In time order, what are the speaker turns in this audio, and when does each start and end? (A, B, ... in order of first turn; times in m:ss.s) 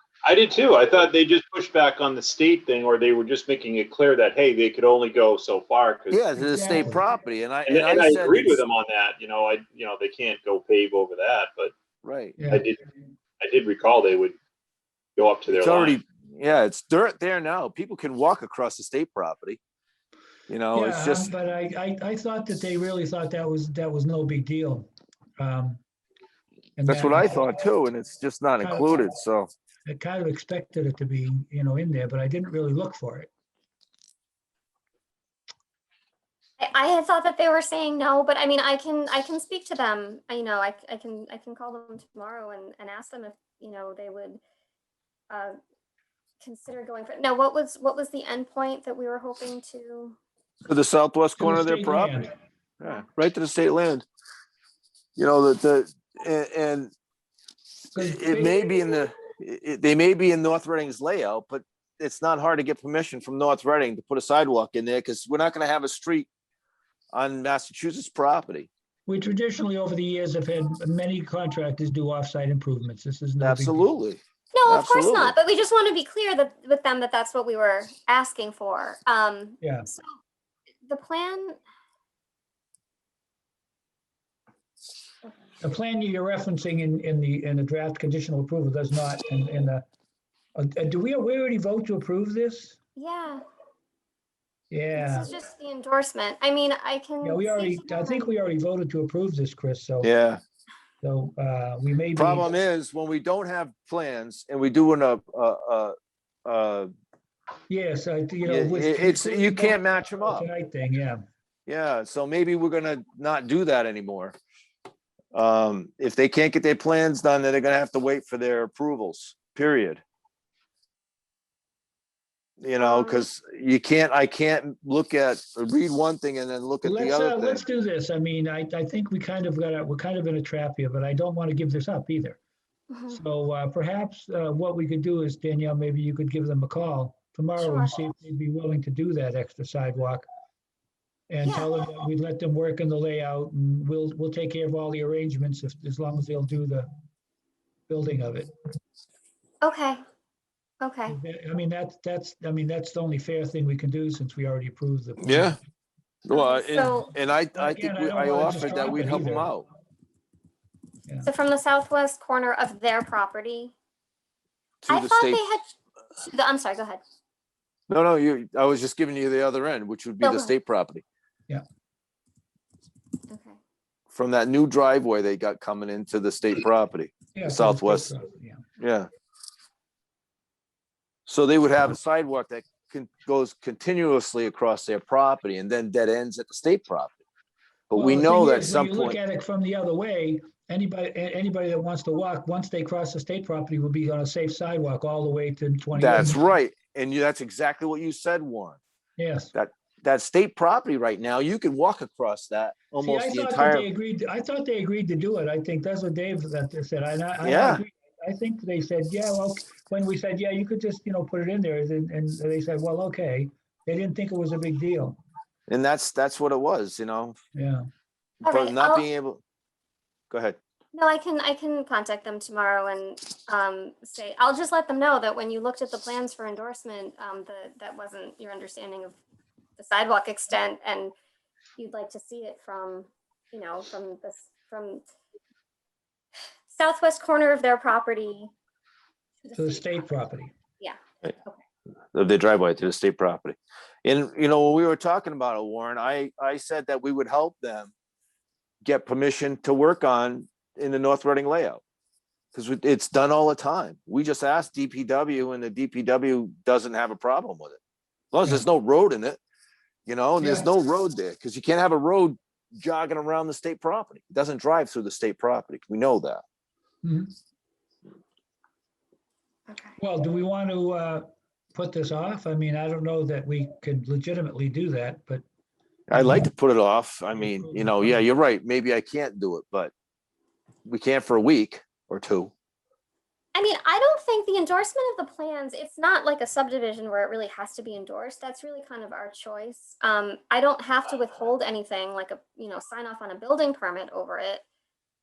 0:00.2-0:06.8 A
0:06.1-0:08.6 B
0:06.4-0:07.0 C
0:07.7-0:11.7 A
0:12.0-0:12.4 B
0:12.4-0:12.6 C
0:12.5-0:12.8 A
0:13.4-0:14.4 A
0:15.2-0:16.0 A
0:15.5-0:19.6 B
0:20.5-0:21.3 B
0:20.7-0:25.8 C
0:26.8-0:27.6 C
0:26.9-0:29.5 B
0:28.6-0:29.1 C
0:29.9-0:33.3 C
0:36.6-0:44.4 D
0:45.3-0:45.6 D
0:46.4-0:50.2 D
0:50.7-0:52.2 B
0:51.4-0:52.3 C
0:52.8-0:54.0 B
0:55.2-0:56.9 B
0:57.9-0:58.6 C
0:58.0-1:06.3 B
1:07.1-1:08.7 B
1:09.1-1:13.9 C
1:13.4-1:15.4 B
1:14.5-1:20.1 D
1:19.6-1:19.9 C
1:20.8-1:21.6 D
1:25.6-1:29.8 C
1:30.6-1:32.8 C
1:33.0-1:33.4 D
1:34.7-1:35.3 C
1:34.9-1:38.3 D
1:37.2-1:40.1 C
1:40.0-1:40.4 B
1:41.0-1:42.5 C
1:42.2-1:45.9 B
1:46.5-1:46.9 B
1:47.7-1:51.2 C
1:48.4-1:50.5 B
1:51.7-1:54.4 B
1:55.3-2:00.0 B
2:02.6-2:07.6 B
2:02.8-2:03.3 D
2:06.8-2:12.4 C
2:12.9-2:13.2 D
2:13.1-2:20.3 C
2:17.6-2:18.0 D
2:21.3-2:26.9 C
2:21.4-2:21.7 D
2:27.9-2:28.5 C
2:29.6-2:30.0 D
2:30.8-2:31.2 D
2:31.1-2:35.6 C
2:35.2-2:35.6 B
2:36.2-2:39.7 B
2:36.3-2:37.1 D
2:37.5-2:39.5 C
2:41.2-2:43.7 D
2:44.8-2:45.4 B
2:44.9-2:47.0 D
2:47.9-2:51.0 B
2:50.2-2:50.5 D
2:53.3-2:53.6 D
2:54.1-2:58.1 B
2:57.3-2:58.6 C
2:58.8-2:59.1 B
3:01.3-3:07.2 B
3:07.9-3:09.2 B
3:07.9-3:16.4 C
3:16.0-3:18.8 B
3:19.2-3:19.5 C
3:19.5-3:23.9 B
3:23.0-3:35.2 C
3:27.4-3:27.8 B
3:35.7-3:37.4 B
3:37.6-3:37.8 C
3:38.4-3:39.1 D
3:38.4-3:39.4 B
3:40.3-3:40.6 B
3:40.9-3:49.2 D
3:49.8-3:51.1 D
3:51.8-3:55.0 D
3:56.7-3:58.5 D
3:59.4-4:00.0 D
3:59.6-4:00.5 C
4:00.8-4:01.6 D
4:02.1-4:07.9 B
4:08.8-4:11.8 B
4:12.5-4:17.8 B
4:18.3-4:19.4 B
4:20.1-4:26.4 B
4:20.4-4:20.7 C
4:27.0-4:27.3 C
4:29.7-4:30.0 D
4:30.0-4:35.4 C
4:36.1-4:39.9 B
4:36.1-4:36.5 C
4:37.4-4:38.3 C
4:40.9-4:42.5 B
4:43.6-4:54.6 D